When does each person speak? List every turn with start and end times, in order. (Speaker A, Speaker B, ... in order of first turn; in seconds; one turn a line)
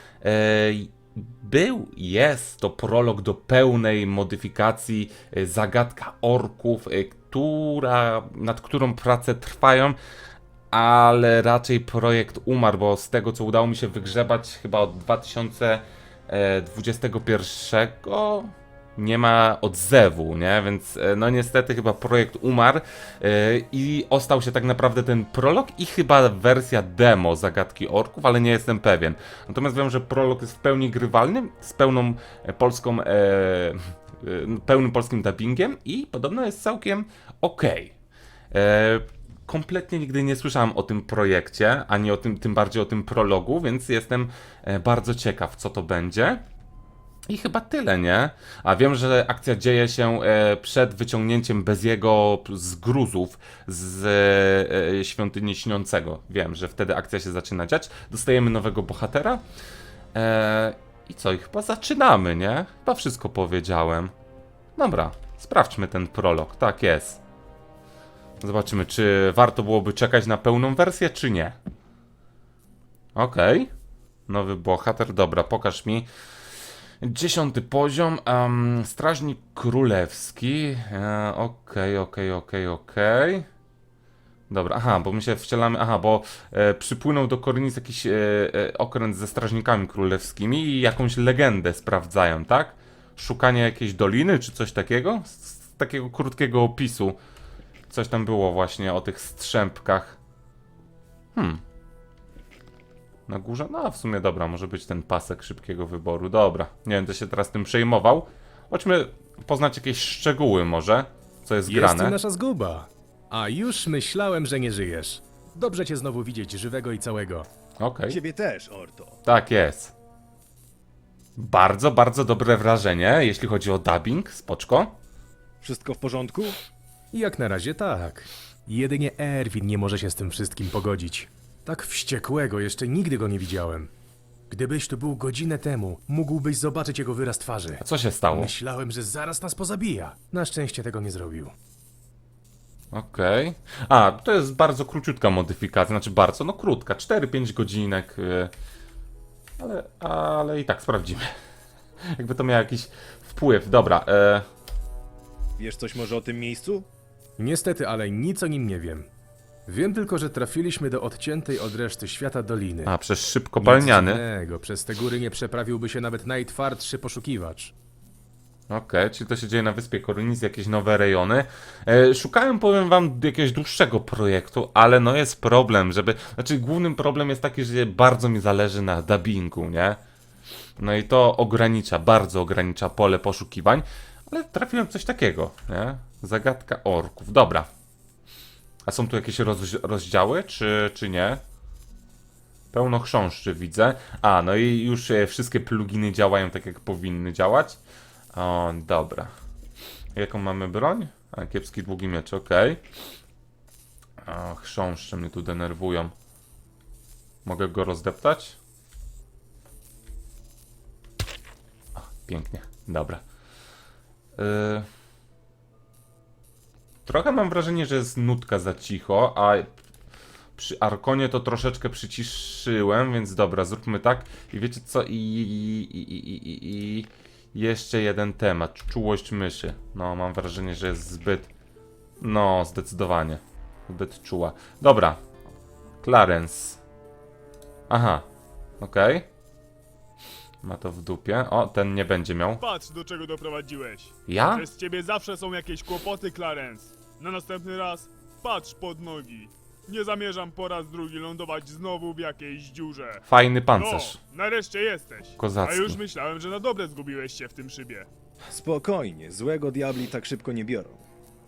Speaker A: 0.2-10.0
Speaker A: 10.7-38.0
Speaker A: 38.5-46.4
Speaker A: 47.3-59.4
Speaker A: 60.1-64.1
Speaker A: 64.8-67.2
Speaker A: 68.4-71.6
Speaker A: 73.2-73.7
Speaker A: 74.3-76.1
Speaker A: 77.0-83.5
Speaker A: 84.5-97.2
Speaker A: 97.9-100.2
Speaker A: 101.3-101.6
Speaker A: 103.3-112.2
Speaker B: 111.7-117.5
Speaker A: 117.8-118.2
Speaker C: 118.1-119.2
Speaker A: 119.2-119.9
Speaker A: 121.4-125.0
Speaker C: 125.6-126.6
Speaker B: 127.1-133.9
Speaker B: 134.5-141.5
Speaker A: 137.8-138.5
Speaker A: 142.9-148.5
Speaker A: 149.6-151.3
Speaker A: 152.0-154.5
Speaker C: 155.6-156.9
Speaker B: 157.4-159.1
Speaker B: 159.7-162.9
Speaker A: 162.8-164.2
Speaker B: 163.6-167.7
Speaker A: 168.7-180.0
Speaker A: 180.8-187.7
Speaker A: 188.9-191.4
Speaker A: 192.7-197.8
Speaker A: 198.3-199.3
Speaker A: 200.2-202.8
Speaker A: 204.2-206.1
Speaker A: 207.4-208.6
Speaker A: 212.0-213.2
Speaker A: 214.4-214.9
Speaker A: 217.1-219.7
Speaker A: 220.6-231.5
Speaker A: 232.2-235.2
Speaker A: 236.0-236.8
Speaker A: 237.9-238.3
Speaker A: 238.8-239.3
Speaker A: 240.6-242.6
Speaker D: 242.6-258.1
Speaker A: 244.3-244.7
Speaker A: 253.3-254.2
Speaker A: 255.4-256.0
Speaker C: 258.5-261.0